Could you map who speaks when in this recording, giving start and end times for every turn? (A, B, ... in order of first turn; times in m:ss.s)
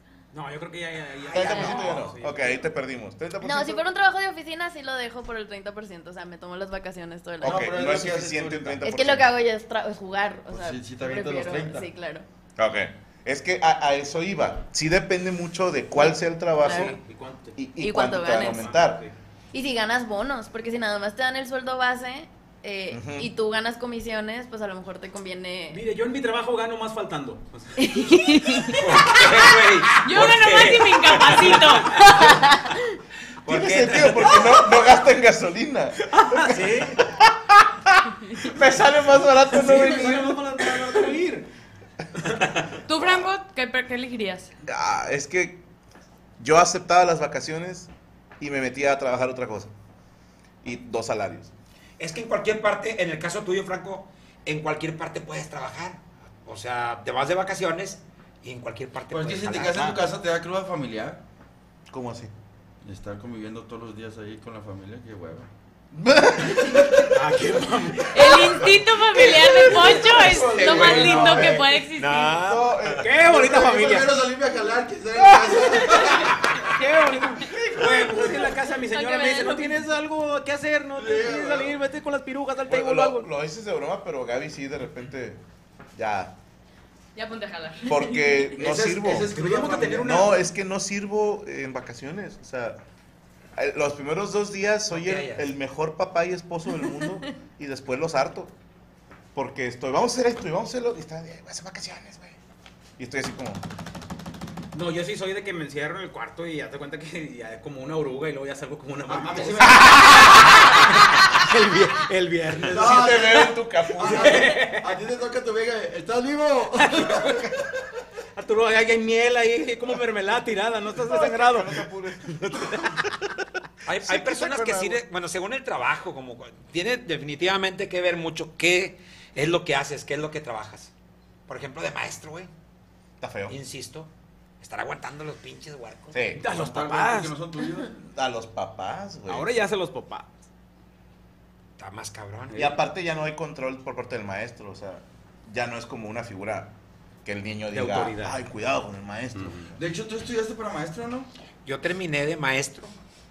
0:00.3-0:02.7 A
0:01.3-0:03.8 B
0:01.4-0:01.8 C
0:03.4-0:07.8 C
0:07.4-0:08.8 D
0:07.4-0:09.4 B
0:08.8-0:12.3 C
0:10.5-0:11.9 D
0:12.6-0:17.0 B
0:16.0-0:17.0 C
0:16.7-0:17.6 A
0:17.6-0:19.0 B
0:17.8-0:18.7 C
0:18.4-0:19.2 A
0:19.5-0:25.8 C
0:22.9-0:23.3 B
0:25.7-0:27.8 A
0:27.8-0:28.8 C
0:28.1-0:28.8 E
0:28.7-0:32.2 F
0:29.0-0:30.0 A
0:30.0-0:32.4 E
0:31.3-0:31.6 A
0:32.2-0:32.8 C
0:33.4-0:34.7 F
0:33.4-0:40.9 B
0:36.1-0:37.0 A
0:39.5-0:41.5 A
0:42.2-0:42.7 A
0:42.9-0:44.5 E
0:42.9-0:43.2 B
0:44.7-0:45.6 B
0:46.4-0:49.7 B
0:50.6-0:51.5 B
0:52.0-1:00.0 F
0:59.1-1:01.2 D
1:01.9-1:02.3 B
1:02.8-1:05.5 D
1:05.9-1:07.1 B
1:07.1-1:08.7 A
1:08.1-1:12.4 E
1:09.1-1:11.6 B
1:10.2-1:11.6 D
1:10.8-1:11.2 A
1:12.0-1:13.1 F
1:12.4-1:13.5 B
1:13.0-1:14.3 A
1:13.3-1:16.4 D
1:15.2-1:16.3 B
1:16.0-1:23.3 A
1:18.9-1:19.8 C
1:21.0-1:21.8 D
1:22.7-1:25.4 B
1:26.0-1:26.4 B
1:27.2-1:28.5 E
1:27.9-1:29.3 B
1:28.6-1:30.2 D
1:29.2-1:30.4 A
1:29.9-1:32.8 B
1:33.6-1:38.5 B
1:34.9-1:35.5 F
1:36.7-1:37.2 C
1:39.3-1:42.4 B
1:43.0-1:43.6 B
1:44.7-1:53.5 A
1:49.1-1:50.2 D
1:52.7-1:57.3 D
1:52.7-1:54.6 B
1:54.0-1:54.9 A
1:56.8-1:57.5 A
1:58.4-2:03.0 A
2:01.0-2:03.0 B
2:03.9-2:10.9 F
2:03.9-2:05.0 B
2:11.5-2:12.5 F
2:13.2-2:13.6 B
2:13.5-2:14.1 F
2:14.6-2:16.2 F
2:16.1-2:16.6 B
2:16.4-2:17.4 A
2:16.5-2:18.0 D
2:18.0-2:19.5 B
2:19.3-2:20.3 A
2:21.8-2:22.7 F
2:22.6-2:26.7 B
2:27.2-2:29.8 B
2:27.7-2:28.4 A
2:29.3-2:29.7 A
2:29.8-2:31.3 D
2:31.6-2:33.0 F